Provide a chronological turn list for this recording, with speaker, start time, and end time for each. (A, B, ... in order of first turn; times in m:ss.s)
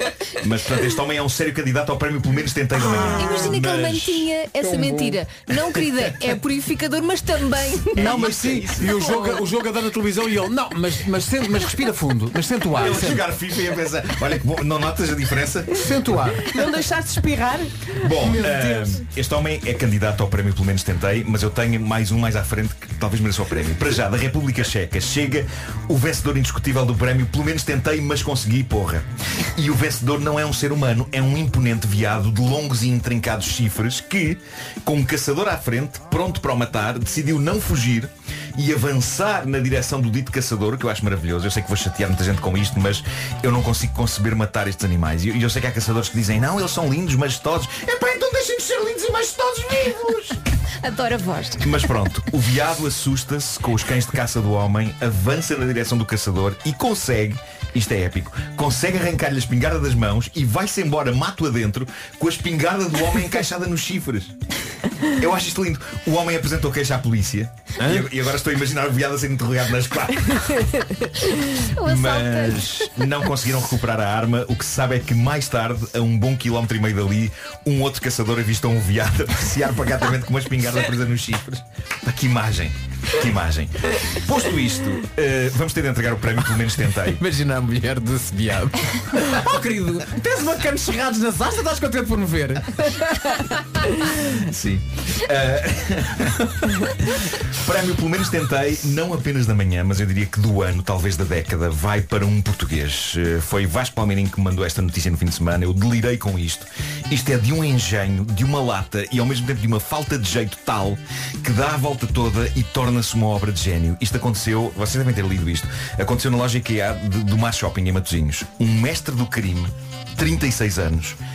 0:00.4-0:04.3 A
0:02.8-0:08.3 B
0:02.9-0:03.5 C
0:04.6-0:05.2 C
0:07.9-0:09.2 A
0:08.0-0:13.3 C
0:12.7-0:15.8 A
0:15.7-0:16.5 C
0:16.4-0:19.0 D
0:18.0-0:50.4 A
0:50.8-0:51.6 B
0:51.6-1:04.3 A
1:05.2-1:10.6 A
1:11.7-1:12.6 B
1:11.8-1:27.2 A
1:27.1-1:32.9 E
1:34.4-2:01.2 A